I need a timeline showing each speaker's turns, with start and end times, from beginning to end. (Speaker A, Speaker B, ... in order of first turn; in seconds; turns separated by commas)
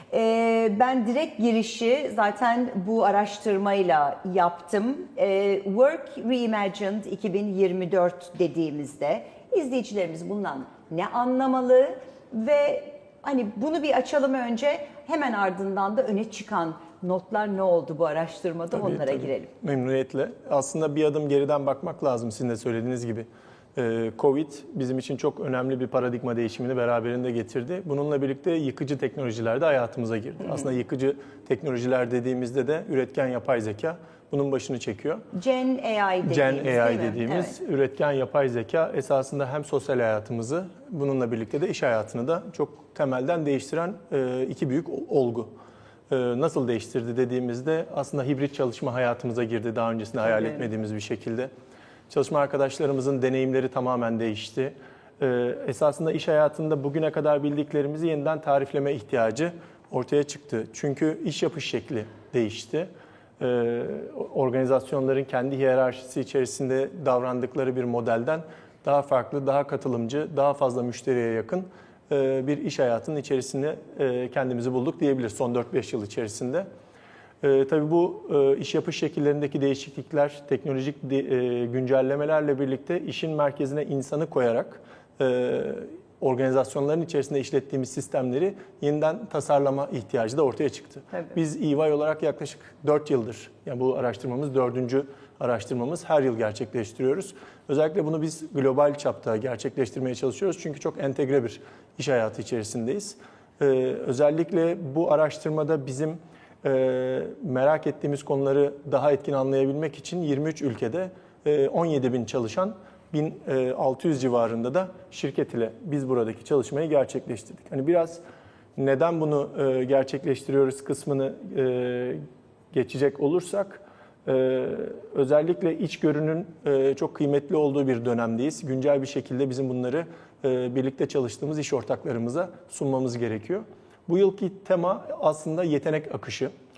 Speaker A: 0.1-19.5, Speaker B: 18.8-35.2, Speaker A: 35.3-37.6, Speaker B: 36.2-45.5, Speaker B: 46.1-51.5, Speaker A: 50.3-50.6, Speaker B: 52.1-76.7, Speaker B: 77.4-118.2, Speaker B: 118.8-122.2, Speaker B: 122.7-136.5